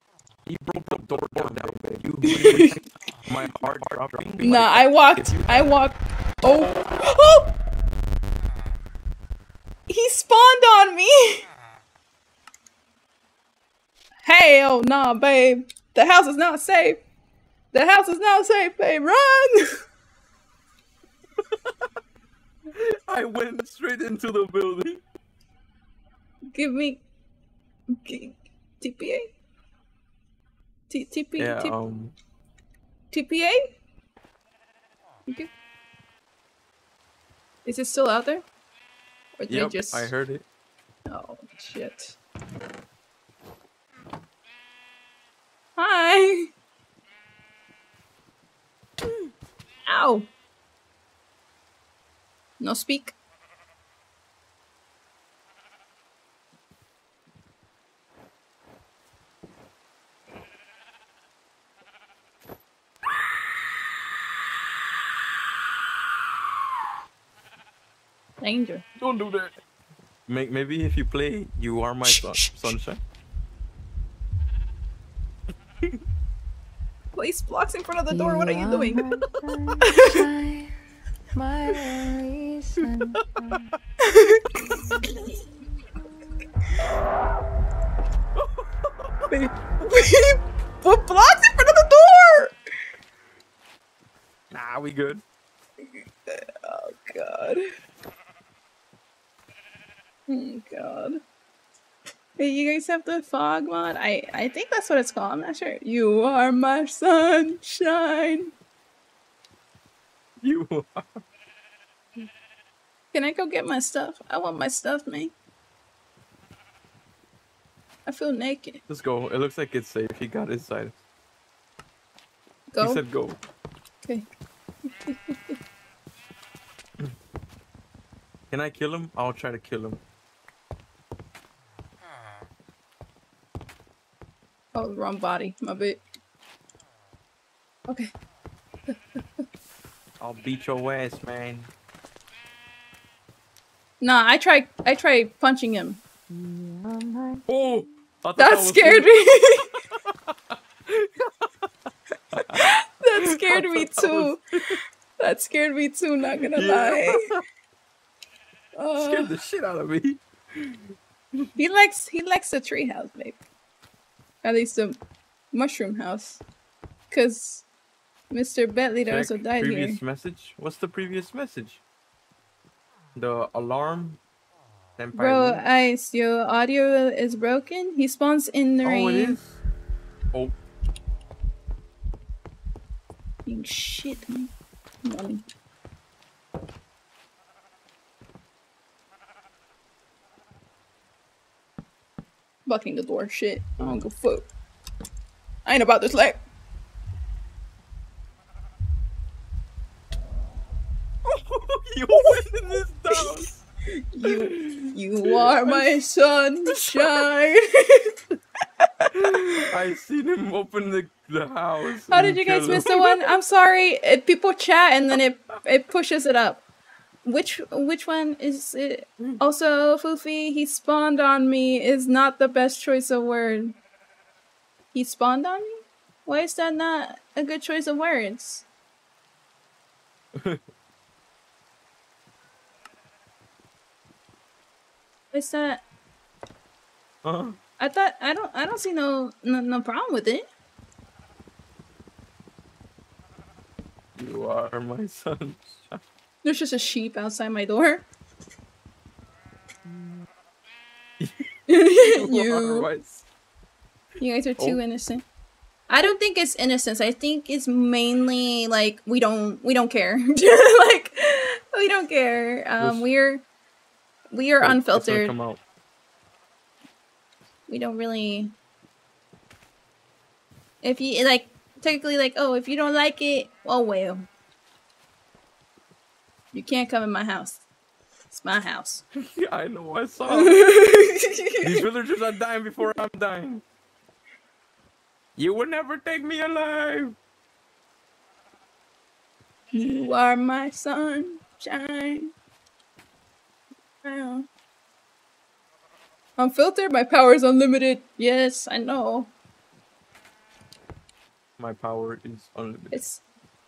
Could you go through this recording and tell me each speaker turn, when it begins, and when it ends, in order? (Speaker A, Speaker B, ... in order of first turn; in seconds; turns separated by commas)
Speaker A: 0.5-5.7, Speaker B: 2.2-2.8, Speaker B: 4.4-7.5, Speaker B: 9.9-11.5, Speaker B: 14.2-17.0, Speaker B: 17.7-19.8, Speaker A: 21.4-21.9, Speaker A: 22.7-25.0, Speaker B: 26.5-27.0, Speaker B: 27.9-29.3, Speaker B: 30.9-31.8, Speaker A: 31.4-32.1, Speaker B: 33.1-33.7, Speaker B: 37.6-38.4, Speaker B: 39.4-40.1, Speaker A: 39.5-40.5, Speaker B: 41.1-42.2, Speaker B: 45.8-46.5, Speaker B: 49.9-50.3, Speaker B: 52.6-53.1, Speaker B: 68.4-68.8, Speaker A: 69.0-69.5, Speaker A: 70.3-73.0, Speaker B: 72.1-72.6, Speaker B: 77.1-79.0, Speaker C: 78.1-80.7, Speaker B: 79.8-80.2, Speaker C: 81.3-83.7, Speaker A: 82.8-83.6, Speaker B: 84.0-85.3, Speaker C: 84.7-85.4, Speaker A: 88.3-89.4, Speaker B: 89.3-92.5, Speaker A: 94.5-95.2, Speaker B: 96.2-97.6, Speaker B: 100.3-101.2, Speaker B: 102.4-108.5, Speaker A: 110.4-111.2, Speaker B: 113.1-115.3, Speaker B: 118.0-118.8, Speaker A: 118.9-121.0, Speaker B: 122.7-123.0, Speaker A: 122.8-123.4, Speaker B: 124.9-125.5, Speaker A: 128.5-130.0, Speaker B: 134.7-136.0, Speaker A: 140.2-141.7, Speaker B: 144.0-146.0, Speaker C: 146.3-147.4, Speaker A: 147.5-149.1, Speaker B: 148.4-149.7, Speaker A: 149.8-151.7, Speaker A: 152.3-152.7, Speaker B: 152.5-157.3, Speaker A: 153.2-154.8, Speaker A: 156.3-157.4, Speaker B: 158.8-159.3, Speaker A: 159.0-160.9, Speaker B: 161.6-163.4, Speaker B: 164.4-165.0, Speaker B: 165.5-166.4, Speaker B: 167.1-167.6, Speaker B: 168.3-170.0, Speaker A: 169.1-171.8, Speaker A: 173.1-174.2, Speaker A: 175.0-175.6, Speaker B: 175.1-179.4, Speaker A: 178.8-179.6, Speaker B: 183.4-184.5, Speaker B: 185.0-185.4, Speaker B: 192.7-194.5, Speaker B: 195.6-196.4, Speaker A: 201.2-203.6, Speaker B: 203.1-208.2, Speaker A: 204.2-205.9, Speaker A: 206.7-207.3, Speaker A: 209.1-213.3, Speaker B: 209.2-209.6, Speaker B: 212.1-216.6, Speaker B: 217.2-223.7, Speaker B: 224.9-228.6, Speaker A: 230.3-230.6, Speaker B: 235.3-235.8, Speaker A: 237.2-237.6, Speaker B: 237.8-240.4, Speaker A: 244.1-246.0, Speaker B: 246.4-248.1, Speaker A: 251.2-251.5, Speaker B: 251.7-252.9, Speaker A: 252.0-253.2, Speaker B: 254.2-255.2, Speaker B: 255.9-263.4, Speaker A: 262.8-263.1, Speaker B: 264.3-265.3, Speaker A: 264.6-265.6, Speaker B: 267.7-268.5, Speaker B: 270.8-274.3, Speaker B: 276.5-277.6, Speaker B: 278.3-279.0, Speaker A: 279.1-280.7, Speaker B: 280.3-281.8, Speaker A: 281.6-283.6, Speaker A: 285.4-287.2, Speaker B: 289.7-292.3, Speaker B: 294.0-294.5, Speaker B: 296.4-299.3, Speaker A: 301.6-303.0, Speaker B: 302.9-303.2